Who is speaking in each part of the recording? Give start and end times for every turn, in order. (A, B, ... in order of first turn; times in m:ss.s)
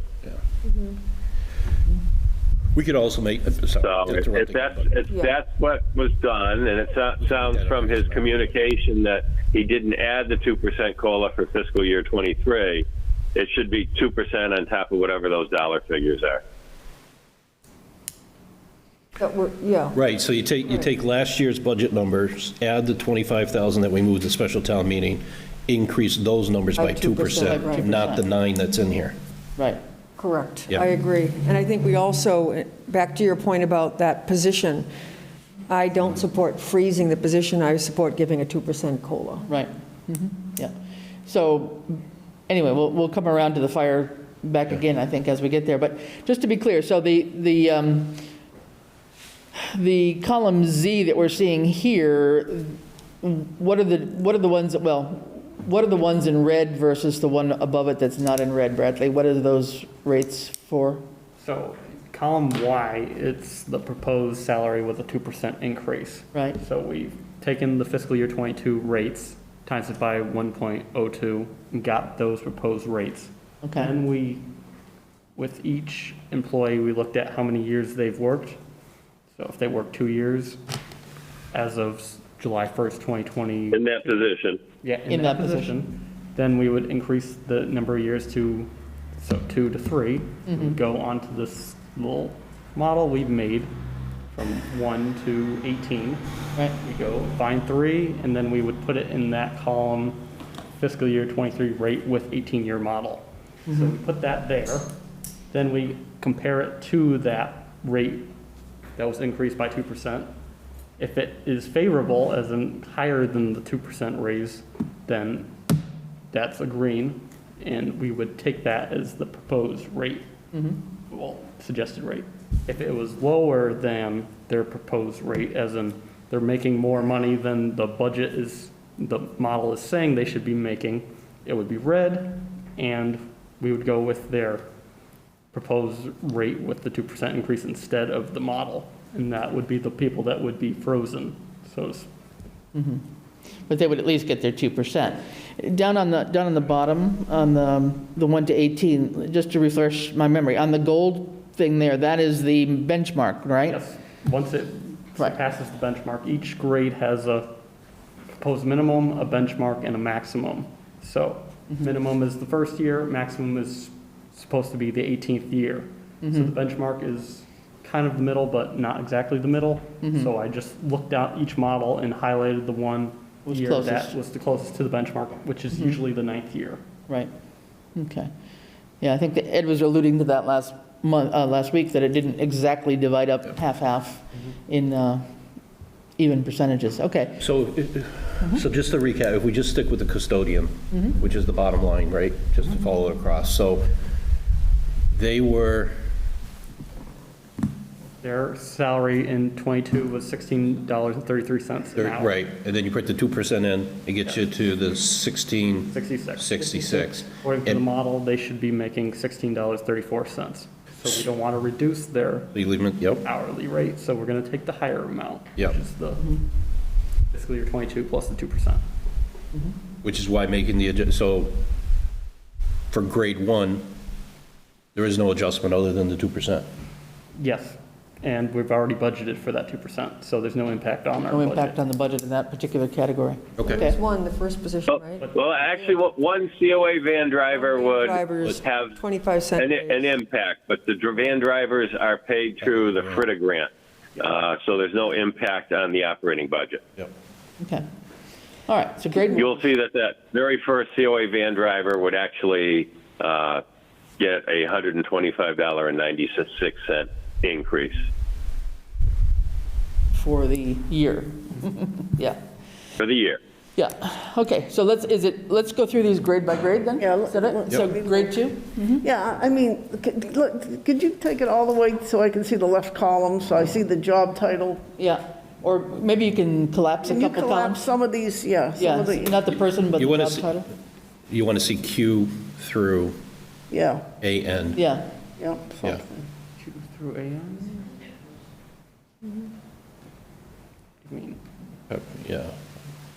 0:00.6-0:01.0 A
0:02.7-0:05.0 B
0:03.8-0:12.8 C
0:07.2-0:08.5 B
0:13.4-0:16.4 C
0:19.2-0:20.0 A
0:19.9-0:29.2 B
0:26.8-0:28.0 A
0:27.4-0:28.2 D
0:30.2-0:34.9 A
0:35.7-0:39.5 A
0:39.5-0:40.7 D
0:41.2-0:48.2 D
0:49.5-1:01.0 D
1:01.4-1:14.4 E
1:13.6-1:13.9 D
1:15.4-1:18.6 E
1:19.3-1:20.6 E
1:21.5-1:24.2 E
1:23.7-1:24.6 C
1:24.8-1:33.7 E
1:25.1-1:25.7 D
1:30.5-1:30.7 D
1:34.3-1:40.2 E
1:40.8-1:44.9 E
1:45.5-1:48.3 E
1:49.0-1:50.3 E
1:51.0-1:55.5 E
1:56.3-2:00.2 E
2:01.1-2:14.6 E
2:15.5-2:22.1 E
2:22.7-2:23.0 D
2:23.7-2:33.8 D
2:33.6-2:37.5 E
2:38.3-2:56.8 E
2:46.2-2:46.5 D
2:50.0-2:50.3 D
2:53.5-2:54.1 D
2:55.7-2:56.0 D
2:57.9-2:58.3 D
2:59.0-3:05.2 D
3:06.2-3:07.4 D
3:07.4-3:13.9 B
3:15.1-3:16.0 B
3:18.2-3:22.4 E
3:22.0-3:27.8 B
3:25.9-3:32.6 E
3:32.5-3:33.2 B
3:33.2-3:36.3 E
3:37.3-3:38.8 E
3:40.0-3:41.6 B
3:42.9-3:43.9 B
3:44.9-3:46.7 B
3:47.4-3:51.7 E
3:51.2-3:54.0 D
3:53.6-3:53.8 B
3:53.6-3:55.3 A
3:54.9-3:59.0 C
3:57.5-4:00.1 A
3:59.6-4:06.8 C
4:02.6-4:03.2 B
4:07.6-4:07.8 D
4:08.7-4:09.5 D
4:09.1-4:13.6 C
4:14.2-4:18.1 C
4:20.1-4:22.4 D
4:23.0-4:23.4 C
4:23.8-4:29.0 D
4:27.0-4:28.4 F
4:29.0-4:34.8 F
4:35.0-4:37.9 D
4:37.0-4:39.4 F
4:38.7-4:40.7 D
4:40.0-4:40.6 B
4:41.3-4:43.2 B
4:43.7-4:44.1 F
4:44.2-4:44.8 B
4:44.8-4:45.1 D
4:45.4-4:46.2 F
4:46.6-4:47.9 E
4:51.0-4:51.4 E
4:51.9-4:52.6 B